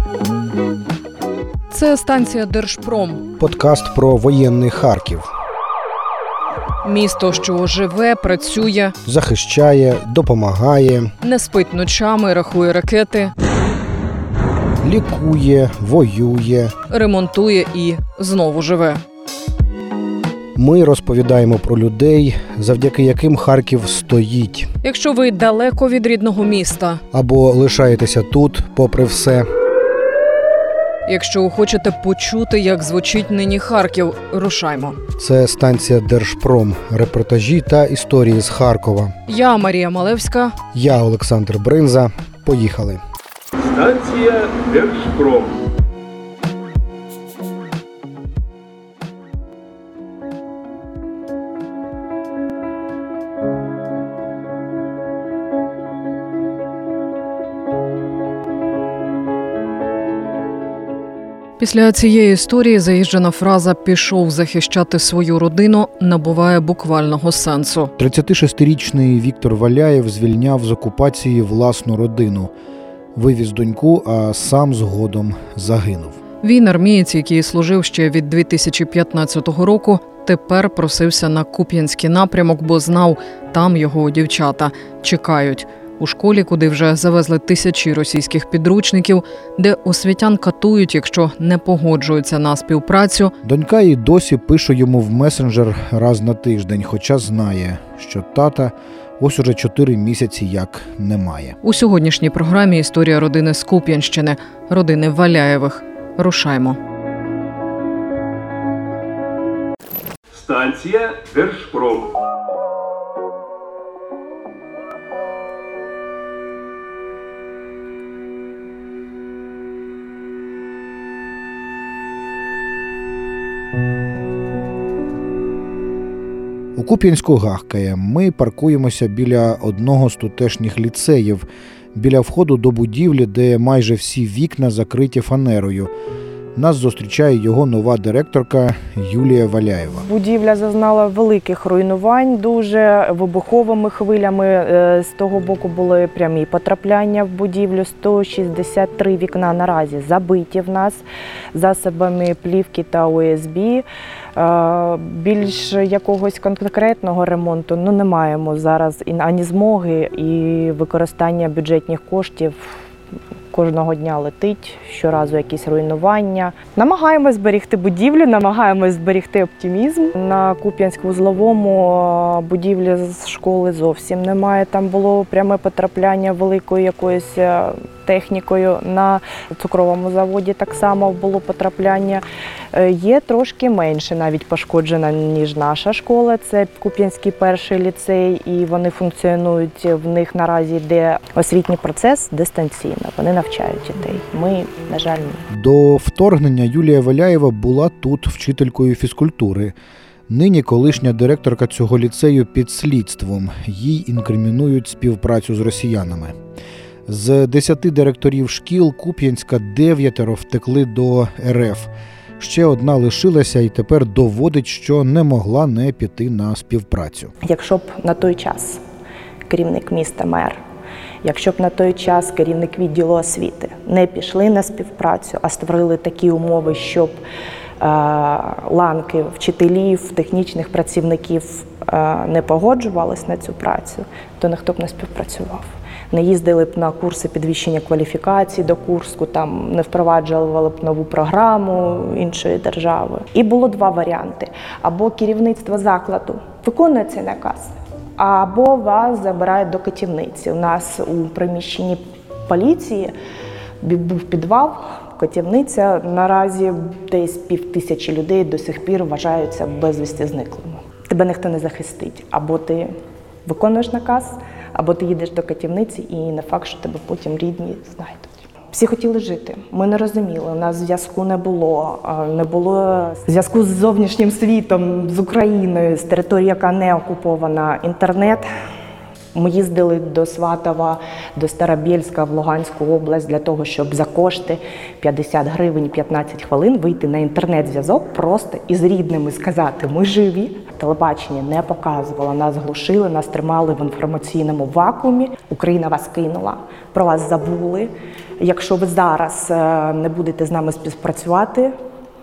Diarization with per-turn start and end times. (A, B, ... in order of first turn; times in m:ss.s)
0:01.7-0:03.2 A
0:03.4-0:05.3 B
0:06.8-0:09.0 A
0:09.0-0:11.1 B
0:11.2-0:13.3 A
0:14.8-0:16.7 B
0:16.9-0:19.0 A
0:20.5-0:24.7 B
0:24.8-0:27.0 A
0:27.1-0:29.5 B
0:31.1-0:35.0 A
0:35.2-0:39.1 B
0:39.3-0:40.5 A
0:40.7-0:43.0 B
0:43.6-0:45.6 C
1:01.6-1:07.9 A
1:08.0-1:12.5 B
1:13.1-1:16.2 B
1:16.4-1:33.3 A
1:33.4-1:41.6 B
1:41.6-1:46.8 A
1:50.3-1:52.1 C
2:06.7-2:15.9 B
2:16.5-2:20.0 B
2:20.0-2:42.7 D
2:43.5-3:15.4 D
3:15.5-3:19.7 B
3:20.3-3:26.4 B
3:27.1-3:37.3 B
3:37.4-3:38.8 D
3:39.5-3:40.6 D
3:41.2-3:47.2 D
3:47.8-4:12.0 D
4:12.5-4:13.1 D
4:13.8-4:22.9 D
4:23.4-4:38.4 D
4:39.3-5:01.7 D